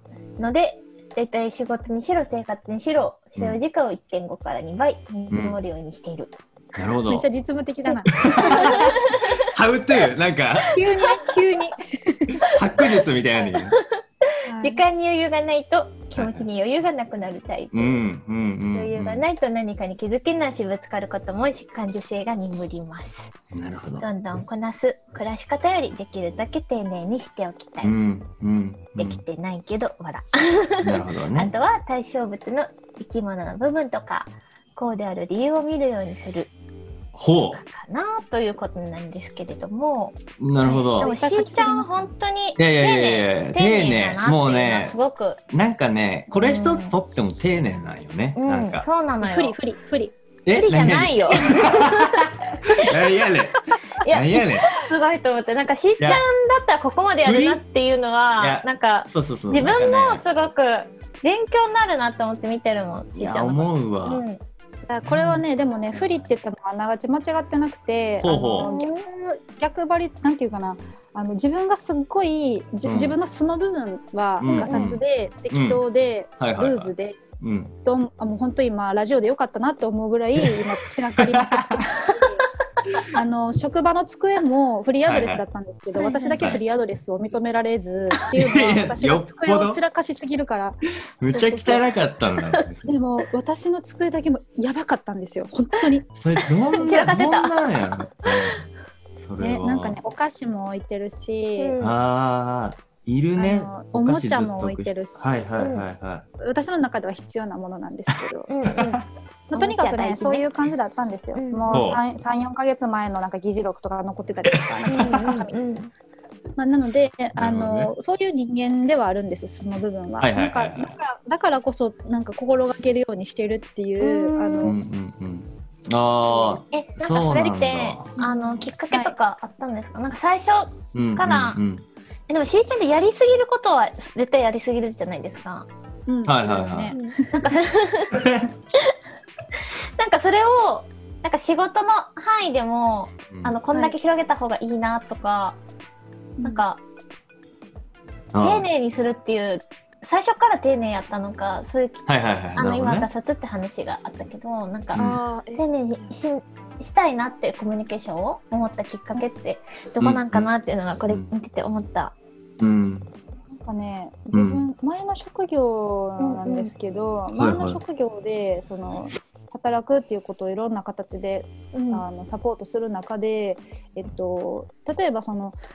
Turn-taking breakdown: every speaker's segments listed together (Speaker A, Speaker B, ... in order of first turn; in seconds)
Speaker A: 0.4-6.3, 8.3-9.5, 10.8-11.3, 13.4-18.0, 18.7-23.3, 24.0-27.9, 29.0-36.5, 37.5-45.4, 46.3-46.9, 48.4-49.5, 50.5-52.2, 54.0-64.4, 68.3-69.0, 74.5-74.9, 86.0-86.5, 96.4-98.5, 101.6-101.9, 105.6-105.8, 108.5-109.0, 109.5-110.5, 111.3-111.8, 114.9-115.9, 124.0-124.7, 126.7-131.6, 132.3-135.7, 136.9-138.2, 140.0-145.6, 146.4-146.8, 148.4-162.1, 166.2-166.7, 171.7-172.0
Speaker B: 5.3-5.6, 6.7-7.2, 8.1-10.8, 12.4-13.8, 16.1-16.5, 17.7-19.2, 23.5-24.4, 27.8-29.2, 30.8-31.5, 37.1-37.6, 40.4-41.1, 42.6-45.0, 45.5-48.9, 50.5-54.7, 56.0-56.2, 57.2-57.6, 58.4-60.2, 63.1-64.2, 65.0-65.4, 68.2-68.7, 72.8-73.2, 74.4-75.8, 76.4-77.7, 81.2-82.0, 85.0-85.4, 88.3-89.8, 91.2-92.8, 96.1-98.6, 99.2-100.0, 101.8-106.2, 108.7-109.0, 111.7-112.0, 114.7-115.2, 117.4-117.9, 120.2-120.9, 124.6-128.1, 130.9-131.8, 136.2-136.9, 138.1-138.5, 143.3-143.6, 148.3-148.7, 152.1-153.1, 154.9-155.2, 160.0-160.5, 162.6-163.1, 164.3-164.7, 167.3-167.8
Speaker C: 7.0-9.0, 10.7-12.6, 14.4-14.8, 41.0-42.1, 49.2-50.1, 64.9-77.2, 77.8-82.4, 83.1-91.8, 92.8-96.1, 99.4-101.7, 103.4-105.3, 106.4-108.5, 109.5-115.6, 116.6-124.7, 126.3-126.6, 128.1-129.1, 136.1-137.4, 154.9-155.6, 163.5-175.6